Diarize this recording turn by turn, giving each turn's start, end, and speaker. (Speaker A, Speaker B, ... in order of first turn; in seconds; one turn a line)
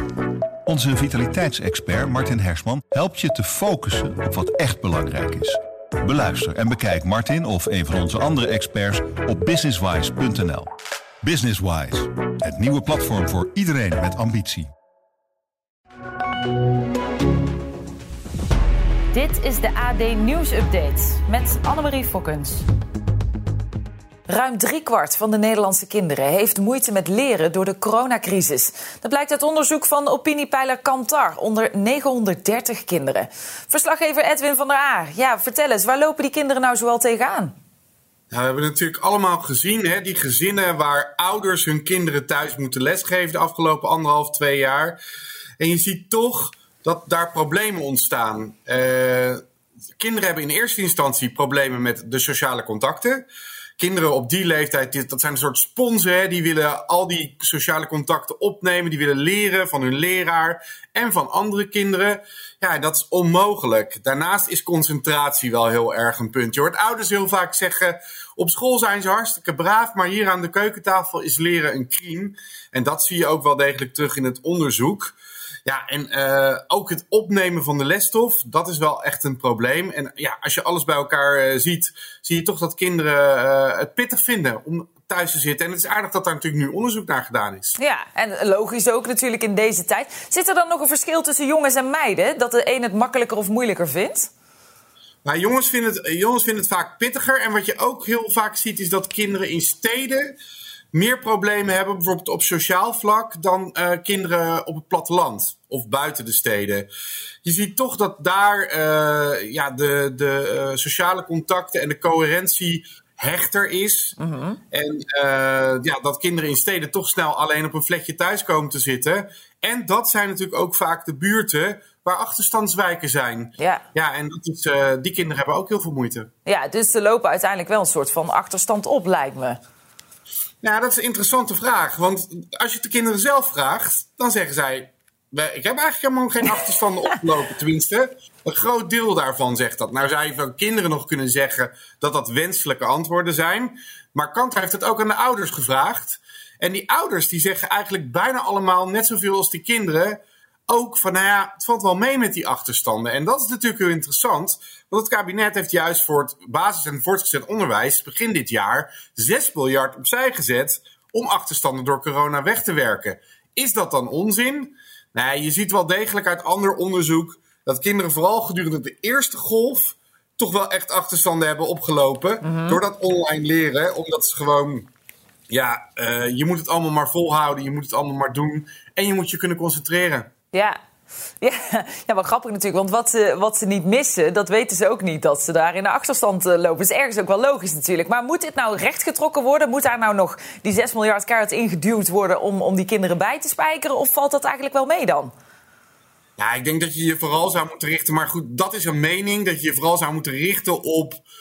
Speaker A: 0.7-10.7
Speaker A: 11.2-14.7
Speaker B: 19.1-22.6
Speaker B: 24.3-37.5
Speaker C: 38.3-45.0
Speaker C: 45.6-49.4
Speaker C: 50.0-53.2
Speaker C: 53.8-87.8
Speaker B: 87.8-94.3
Speaker C: 95.2-100.4
Speaker C: 100.9-106.9
Speaker C: 107.4-114.2
Speaker B: 114.2-114.6
Speaker C: 114.7-126.3
Speaker B: 123.6-123.8
Speaker B: 126.5-129.6
Speaker C: 130.6-174.9
Speaker B: 172.4-172.8
Speaker C: 175.5-180.3
Speaker B: 180.5-180.8
Speaker B: 181.4-195.3
Speaker C: 196.4-201.2